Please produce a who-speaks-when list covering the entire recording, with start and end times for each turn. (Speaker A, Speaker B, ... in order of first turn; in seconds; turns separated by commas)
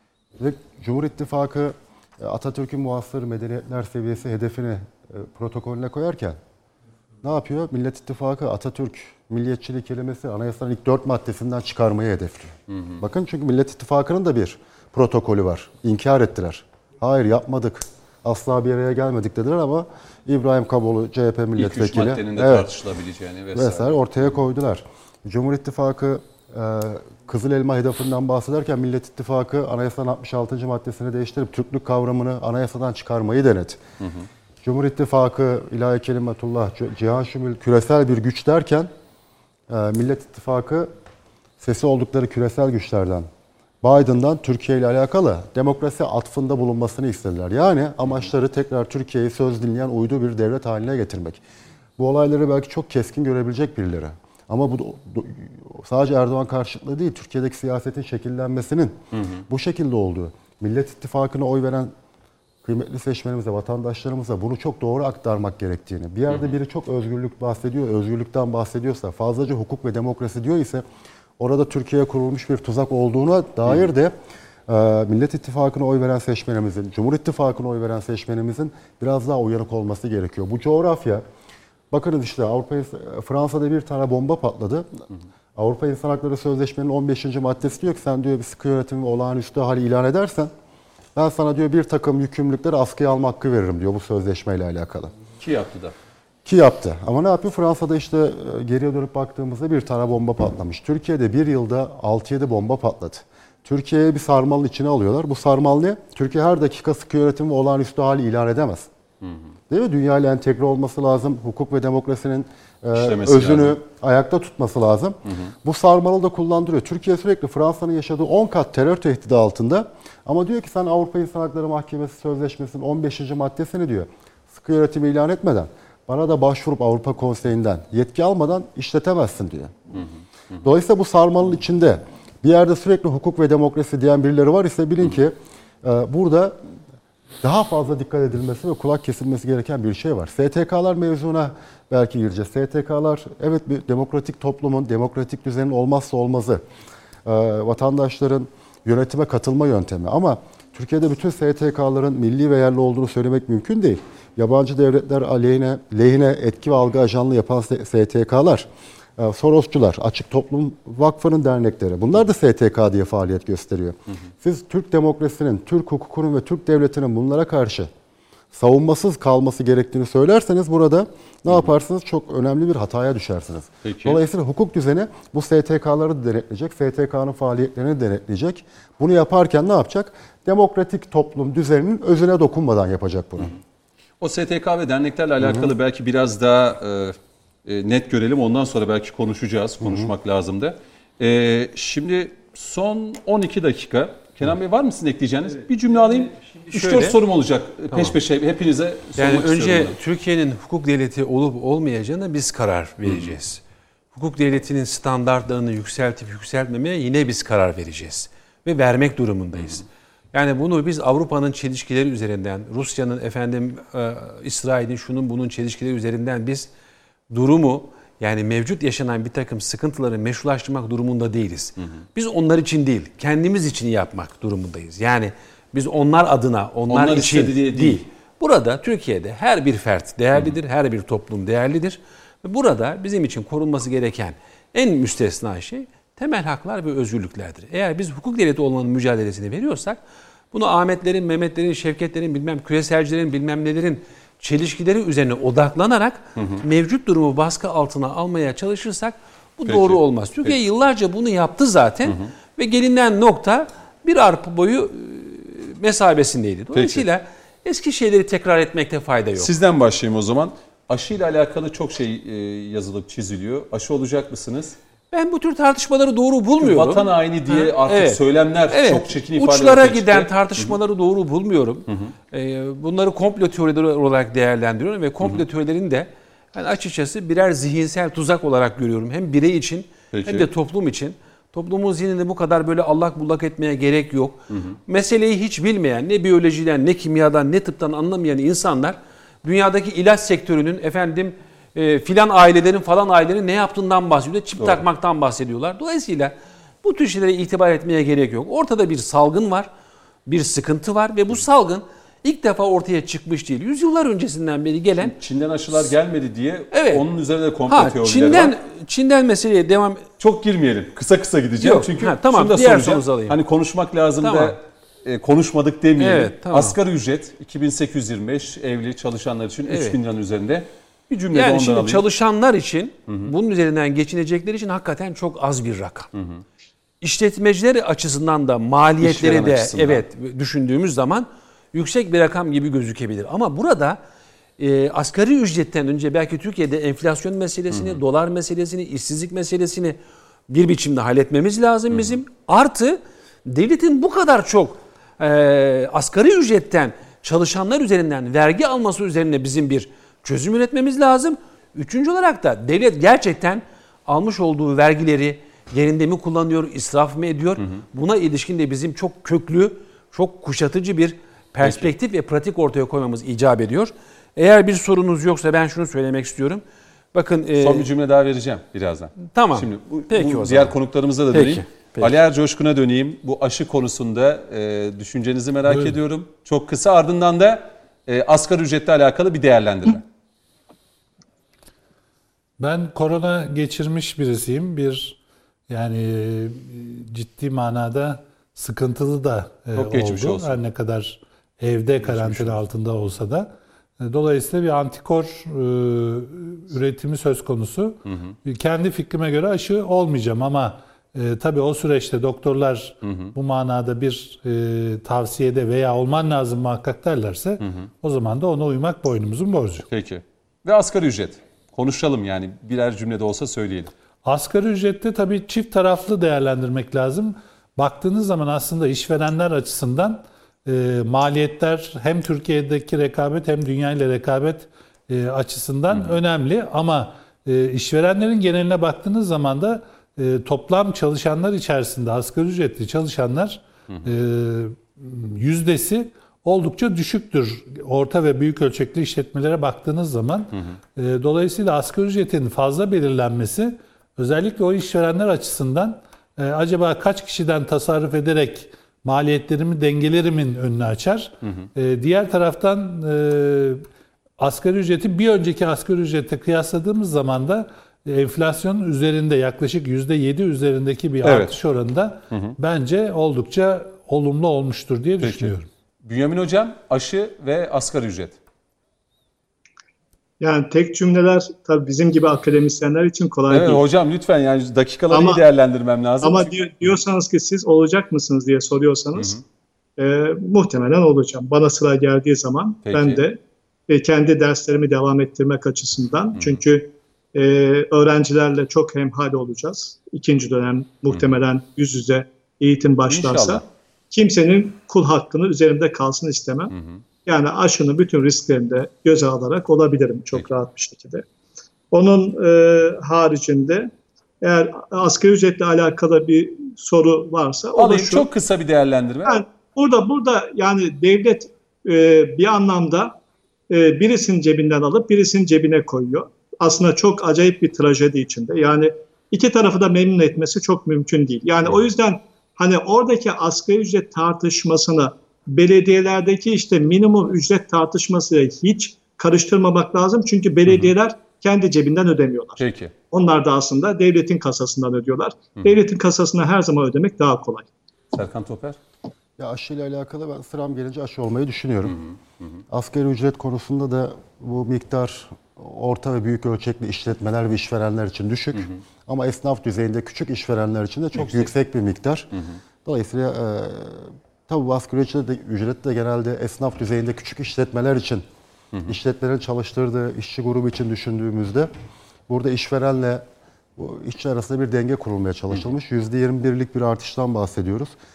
Speaker A: 0.4-6.4, Speaker A: 7.2-22.7, Speaker B: 12.7-13.0, Speaker B: 21.6-24.0, Speaker A: 23.5-33.8, Speaker A: 34.6-38.9, Speaker A: 39.7-40.9, Speaker A: 41.6-43.3, Speaker A: 43.8-51.4, Speaker A: 52.0-61.9, Speaker A: 62.6-70.8, Speaker A: 71.4-74.1, Speaker A: 74.7-81.2, Speaker A: 81.9-85.0, Speaker A: 85.5-90.5, Speaker A: 91.1-95.1, Speaker B: 95.4-95.9, Speaker A: 96.4-108.9, Speaker A: 109.7-129.7, Speaker B: 112.9-113.8, Speaker B: 115.3-115.5, Speaker A: 130.6-136.6, Speaker A: 137.4-146.6, Speaker A: 147.2-167.9, Speaker A: 168.5-183.6, Speaker B: 173.8-174.2, Speaker B: 184.2-199.9, Speaker A: 185.4-185.7, Speaker A: 189.8-190.1, Speaker C: 196.4-197.2, Speaker C: 197.9-198.2, Speaker C: 199.2-216.7, Speaker C: 217.3-240.0, Speaker B: 226.9-228.0, Speaker C: 240.5-259.5, Speaker B: 249.7-250.5, Speaker B: 256.7-257.0, Speaker B: 259.4-264.8, Speaker C: 265.1-299.7, Speaker B: 266.6-270.7, Speaker B: 280.1-280.5, Speaker B: 284.5-284.8, Speaker C: 300.2-305.1, Speaker B: 305.0-308.5, Speaker C: 306.7-307.0, Speaker C: 307.7-310.1, Speaker B: 310.2-322.0, Speaker C: 311.6-313.4, Speaker C: 314.2-314.6, Speaker C: 316.0-316.8, Speaker C: 319.7-320.0, Speaker C: 321.3-326.1, Speaker B: 323.1-323.3, Speaker B: 326.1-326.4, Speaker C: 327.0-334.0, Speaker B: 329.0-330.0, Speaker C: 334.6-340.0, Speaker B: 337.7-338.0, Speaker C: 340.5-367.9, Speaker B: 361.6-361.9, Speaker B: 367.6-380.0, Speaker C: 369.3-370.8, Speaker C: 371.3-372.1, Speaker D: 375.6-376.0, Speaker D: 382.6-409.9, Speaker B: 389.7-390.5, Speaker B: 392.0-392.6, Speaker B: 398.1-398.4, Speaker B: 403.0-403.3, Speaker B: 407.6-407.9, Speaker B: 409.9-413.9, Speaker D: 414.2-453.8, Speaker B: 425.9-426.2, Speaker D: 454.4-465.7, Speaker B: 461.2-461.5, Speaker B: 462.3-462.6, Speaker B: 465.2-468.4, Speaker E: 470.4-473.8, Speaker B: 473.5-476.5, Speaker E: 475.1-475.4, Speaker E: 476.2-479.4, Speaker B: 479.1-479.4, Speaker E: 480.0-496.7, Speaker B: 482.8-483.2, Speaker B: 493.1-493.6, Speaker B: 496.7-497.0, Speaker E: 497.2-501.2, Speaker E: 501.9-503.9, Speaker E: 504.4-508.2, Speaker B: 507.7-509.4, Speaker E: 509.2-513.2, Speaker E: 513.7-537.7, Speaker B: 530.7-530.9, Speaker B: 532.6-532.9, Speaker B: 538.1-538.8, Speaker A: 539.4-542.0, Speaker B: 542.1-542.6, Speaker A: 542.7-552.3, Speaker B: 551.1-551.5, Speaker A: 552.8-558.2, Speaker A: 558.9-561.7, Speaker A: 562.3-563.2, Speaker A: 563.8-567.9